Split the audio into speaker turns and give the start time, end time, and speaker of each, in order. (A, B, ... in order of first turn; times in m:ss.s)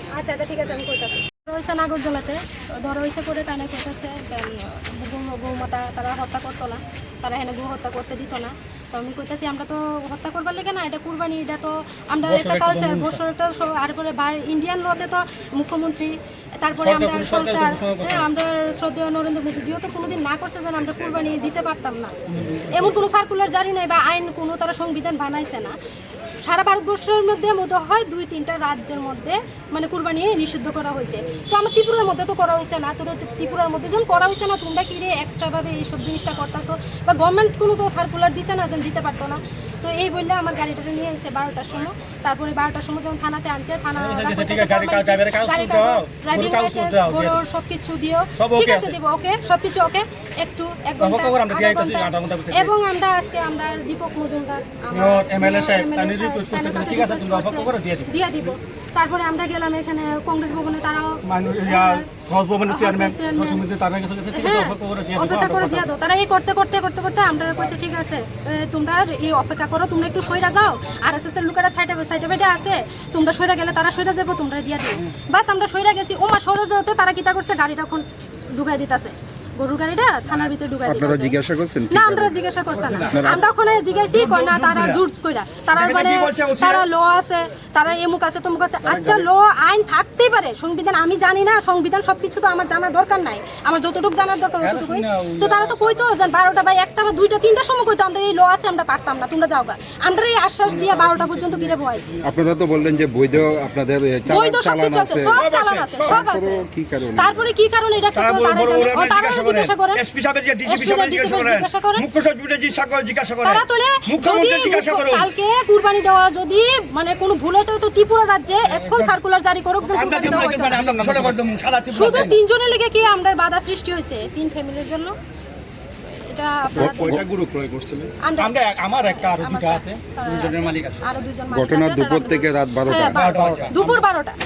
0:00.1-0:22.1 A
0:12.2-0:13.2 B
0:16.8-0:18.2 B
0:22.7-0:25.7 A
0:26.4-1:02.0 A
0:44.0-0:47.4 B
0:48.4-0:48.9 B
0:51.0-0:52.7 B
0:54.9-0:58.1 B
1:01.2-1:05.9 B
1:02.7-1:03.6 A
1:04.3-1:21.3 A
1:20.8-1:22.4 C
1:21.9-1:42.1 A
1:22.7-1:23.1 B
1:23.1-1:23.4 C
1:24.2-1:25.0 B
1:25.7-1:26.8 D
1:28.8-1:29.3 C
1:34.6-1:36.1 B
1:40.6-1:41.7 B
1:42.2-1:47.5 C
1:44.3-1:50.0 A
1:45.3-1:46.2 D
1:48.2-1:55.3 D
1:50.6-1:52.1 A
1:53.4-2:00.8 A
1:59.9-2:02.4 D
2:00.6-2:01.4 B
2:01.9-2:05.1 A
2:06.3-2:07.2 A
2:06.7-2:07.3 C
2:07.4-2:08.0 D
2:08.2-2:14.3 A
2:08.4-2:10.1 B
2:10.2-2:11.0 D
2:11.5-2:13.7 C
2:13.1-2:14.0 B